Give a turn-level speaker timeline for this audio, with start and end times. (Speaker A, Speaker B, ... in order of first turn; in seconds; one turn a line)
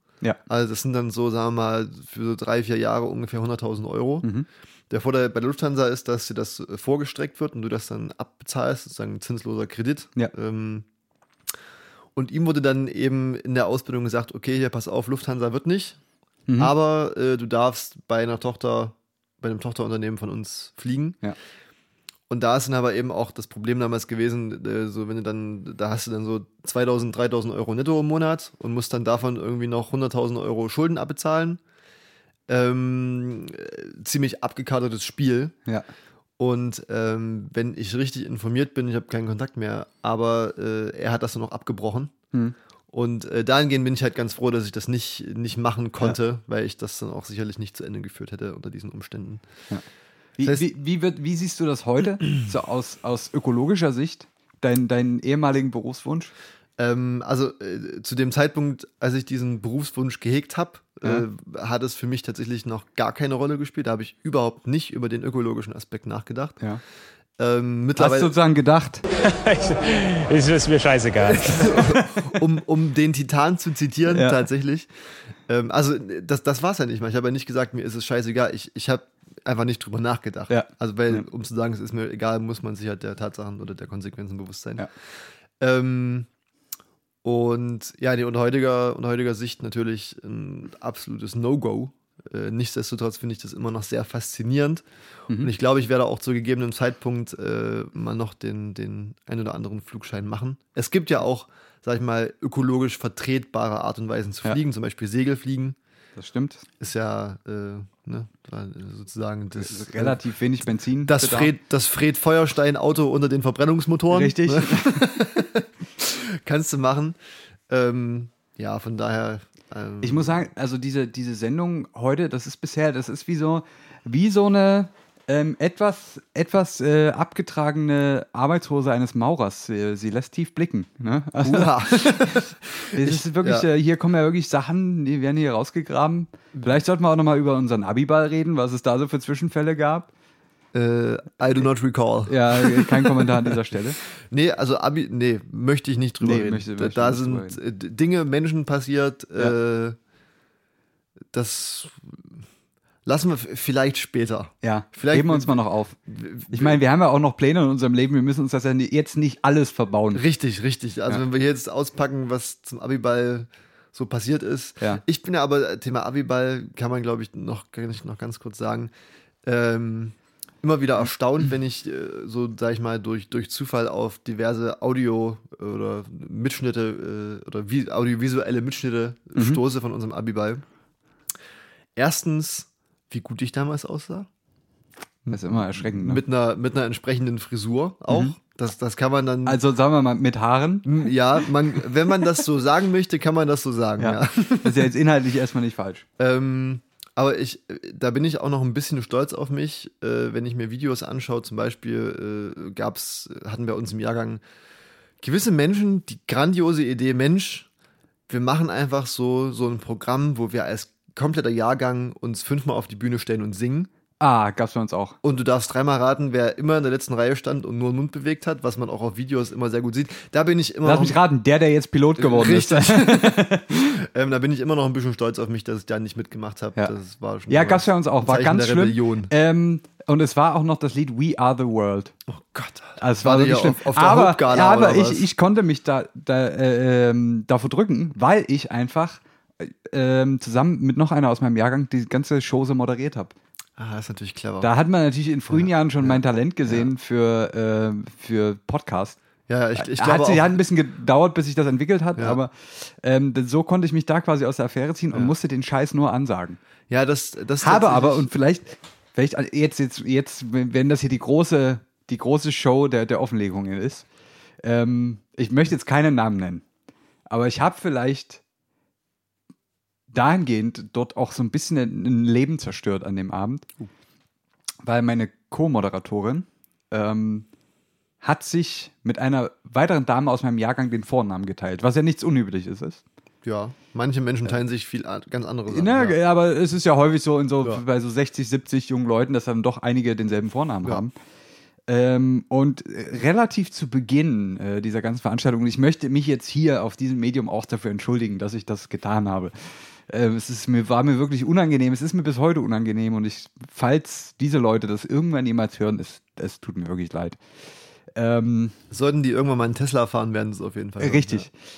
Speaker A: 0.5-4.3
Speaker A: 4.9-10.8
Speaker A: 12.1-16.0
Speaker A: 16.6-21.2
Speaker A: 22.3-31.6
Speaker A: 32.5-35.5
Speaker A: 36.4-42.1
Speaker A: 42.9-49.4
Speaker B: 50.4-56.3
Speaker A: 56.8-66.6
Speaker A: 67.4-68.3
Speaker B: 68.0-69.0
Speaker C: 69.2-71.9
Speaker A: 71.4-74.9
Speaker B: 74.1-74.5
Speaker A: 75.4-86.3
Speaker B: 80.5-81.2
Speaker A: 87.2-94.8
Speaker A: 95.4-105.8
Speaker B: 106.2-106.7
Speaker A: 106.8-110.2
Speaker B: 109.5-111.5
Speaker A: 111.0-117.2
Speaker B: 114.1-115.0
Speaker A: 117.7-120.5
Speaker B: 120.0-132.4
Speaker A: 131.4-133.7
Speaker B: 132.9-140.1
Speaker A: 140.7-143.5
Speaker B: 142.3-144.0
Speaker A: 144.2-150.0
Speaker B: 146.2-147.6
Speaker A: 151.3-152.4
Speaker A: 153.0-155.5
Speaker B: 154.6-156.0
Speaker A: 156.1-156.8
Speaker B: 156.5-160.2
Speaker A: 160.1-168.9
Speaker A: 169.4-180.6
Speaker A: 181.9-184.3
Speaker A: 185.2-189.6
Speaker B: 185.3-186.2
Speaker B: 189.4-191.4
Speaker A: 190.8-194.9
Speaker B: 194.0-196.1
Speaker A: 196.2-204.4
Speaker A: 205.2-207.7
Speaker A: 208.3-213.9
Speaker B: 214.2-215.2
Speaker A: 215.2-221.2
Speaker B: 220.8-224.0
Speaker A: 222.2-229.3
Speaker B: 227.5-232.1
Speaker A: 232.3-235.3
Speaker B: 233.0-243.3
Speaker A: 243.8-244.7
Speaker B: 244.6-249.2
Speaker A: 245.5-246.9
Speaker A: 249.5-250.5
Speaker B: 249.8-256.6
Speaker A: 256.9-258.3
Speaker B: 257.6-264.1
Speaker B: 264.6-266.6
Speaker B: 267.3-268.4
Speaker B: 270.1-273.7
Speaker B: 274.8-277.5
Speaker B: 278.2-283.0
Speaker A: 283.4-286.1
Speaker B: 285.7-291.1
Speaker B: 291.9-307.4
Speaker B: 308.1-308.7
Speaker A: 308.9-311.5
Speaker B: 311.0-311.5